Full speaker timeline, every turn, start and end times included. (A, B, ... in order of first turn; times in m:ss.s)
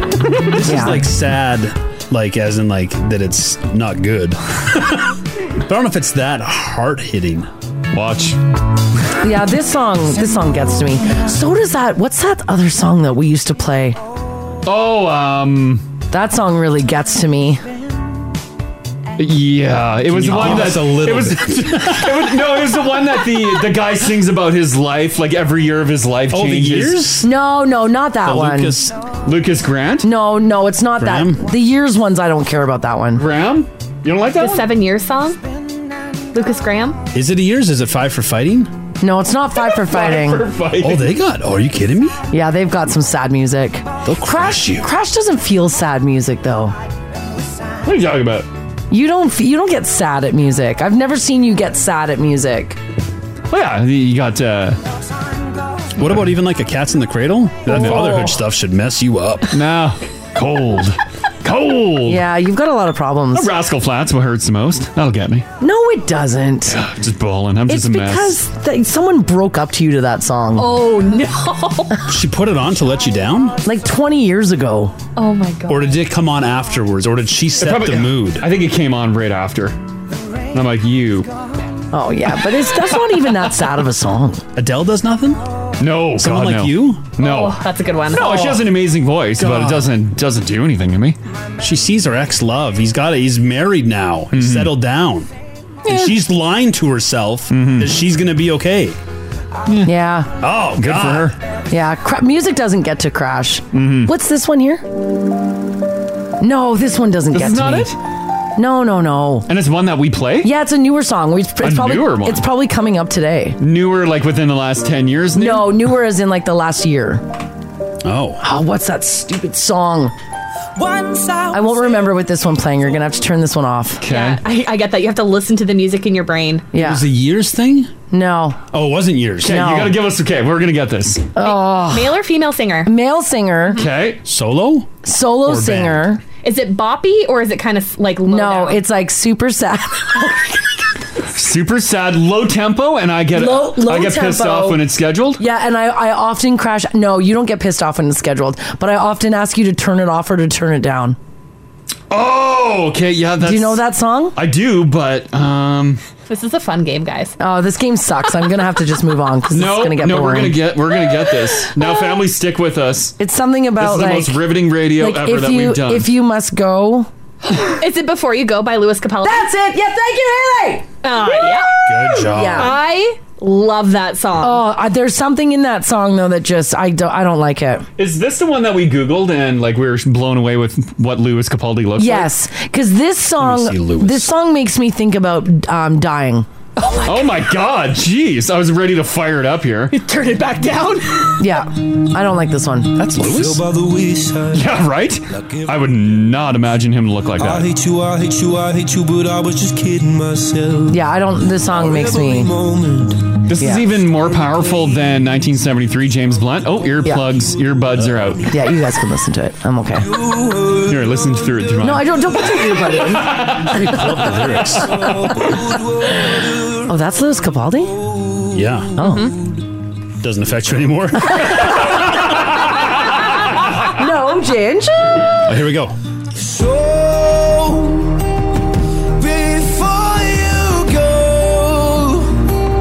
0:00.5-0:07.5 A
0:00.6-0:01.0 B
0:07.9-0:08.4 C
0:09.2-0:14.0 B
0:14.6-0:15.8 C
0:16.1-0:17.6 B
0:19.2-0:27.1 C
0:20.1-0:22.4 A
0:26.3-0:27.3 A
0:27.2-0:28.8 B
0:28.2-0:29.0 A
0:29.2-0:30.1 C
0:30.0-0:33.2 B
0:31.0-0:31.4 A
0:33.2-0:34.7 C
0:34.4-0:35.4 D
0:36.3-0:37.0 D
0:37.1-0:38.7 A
0:39.0-0:40.5 B
0:39.6-0:41.2 C
0:40.8-0:42.2 A
0:42.3-0:46.8 B
0:44.0-0:44.9 A
0:47.8-0:48.5 C
0:48.9-0:52.8 B
0:53.5-0:54.8 C
0:56.0-0:59.6 A
0:57.7-0:58.3 C
0:59.5-1:02.2 C
1:02.0-1:03.5 B
1:03.3-1:05.5 C
1:05.6-1:06.8 B
1:06.7-1:08.4 C
1:07.7-1:10.7 B
1:10.6-1:12.1 D
1:12.1-1:13.6 A
1:13.6-1:15.0 B
1:15.2-1:15.9 D
1:15.7-1:18.5 A
1:17.6-1:19.8 C
1:20.5-1:21.3 C
1:21.9-1:24.4 B
1:24.6-1:25.4 A
1:25.8-1:31.2 C
1:26.2-1:27.1 A
1:27.2-1:28.6 D
1:29.4-1:29.9 A
1:31.6-1:35.3 A
1:34.3-1:34.7 C
1:35.8-1:39.0 A
1:37.5-1:37.9 C
1:39.8-1:40.3 B
1:40.4-1:41.4 A
1:40.8-1:41.4 C
1:41.7-1:44.8 B
1:43.7-1:44.1 C
1:46.4-1:47.9 B
1:47.3-1:48.0 C
1:48.6-1:49.5 B
1:49.5-1:50.5 C
1:50.4-1:53.6 B
1:51.6-1:52.4 C
1:53.6-1:55.8 C
1:55.4-1:57.2 B
1:58.0-1:58.4 A
1:58.4-2:00.1 B
2:00.8-2:02.1 E
2:01.5-2:04.0 B
2:04.0-2:04.4 C
2:04.1-2:06.7 D
2:06.7-2:07.0 B
2:06.8-2:07.9 A
2:08.1-2:08.6 B
2:08.7-2:09.8 A
2:09.4-2:09.9 B
2:09.4-2:11.3 C
2:11.4-2:12.2 B
2:11.4-2:12.9 D
2:12.8-2:13.8 B
2:13.8-2:14.2 C
2:14.2-2:14.9 A
2:15.0-2:16.2 B
2:15.4-2:16.1 A
2:16.4-2:18.8 D
2:18.3-2:20.6 B
2:21.3-2:25.4 C
2:23.3-2:24.8 B
2:25.4-2:31.2 B
2:32.1-2:33.8 C
2:33.4-2:34.4 B
2:34.4-2:36.0 C
2:36.3-2:37.4 D
2:37.4-2:40.6 B
2:39.5-2:43.2 C
2:43.2-2:44.4 B
2:43.8-2:46.1 C
2:45.0-2:47.1 B
2:47.7-2:49.5 D
2:49.2-2:50.9 B
2:51.0-2:54.6 D
2:51.9-2:52.8 A
2:52.1-2:52.8 B
2:54.4-2:57.9 B
2:58.0-3:02.3 C
3:02.0-3:06.5 B
3:03.4-3:04.3 A
3:06.8-3:07.4 D
3:07.0-3:09.9 C
3:09.9-3:11.3 D
3:11.4-3:13.0 B
3:13.0-3:13.7 A
3:13.2-3:14.7 E
3:14.5-3:17.7 C
3:17.4-3:21.0 E
3:20.9-3:22.5 B
3:21.7-3:23.4 E
3:23.5-3:28.5 C
3:28.0-3:28.4 A
3:28.5-3:30.1 B
3:30.1-3:30.9 E
3:30.9-3:32.1 C
3:31.8-3:34.0 B
3:33.1-3:33.8 C
3:33.7-3:35.0 A
3:34.9-3:36.8 E
3:36.9-3:38.0 B
3:38.5-3:39.0 A
3:39.0-3:39.3 B
3:39.0-3:39.3 D
3:40.2-3:42.0 A
3:41.3-3:41.9 B
3:43.9-3:45.3 B
3:45.4-3:46.0 A
3:46.4-3:48.1 E
3:49.2-3:52.4 E